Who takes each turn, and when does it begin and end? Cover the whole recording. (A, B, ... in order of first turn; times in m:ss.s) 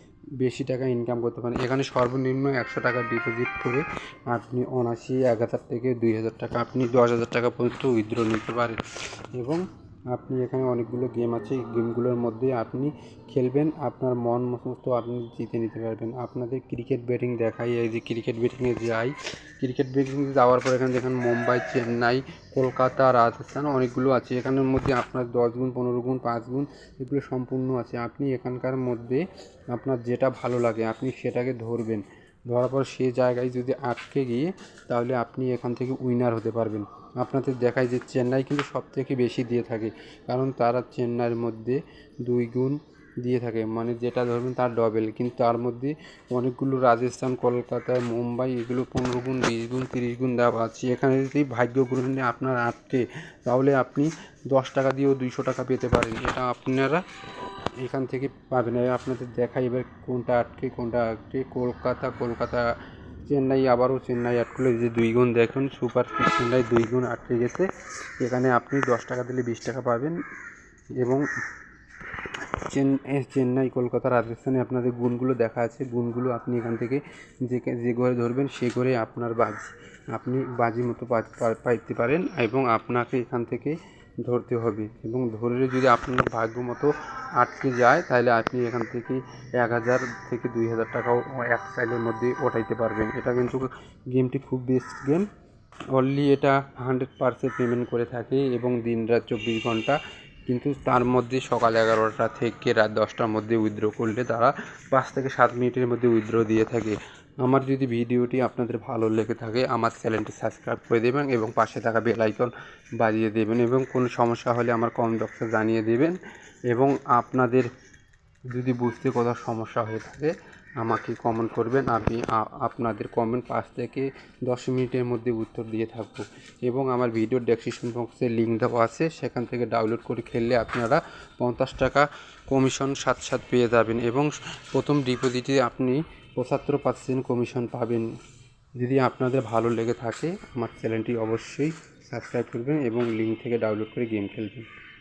0:00.4-0:08.8 A
0:09.4-0:57.0 A
0:57.8-1:02.6 A
1:03.3-1:07.7 A
1:08.2-1:10.2 A
1:12.7-1:35.3 A
1:35.9-1:40.0 A
1:40.5-1:56.2 A
1:56.7-1:57.7 A
1:58.5-2:18.1 A
2:18.8-2:24.7 A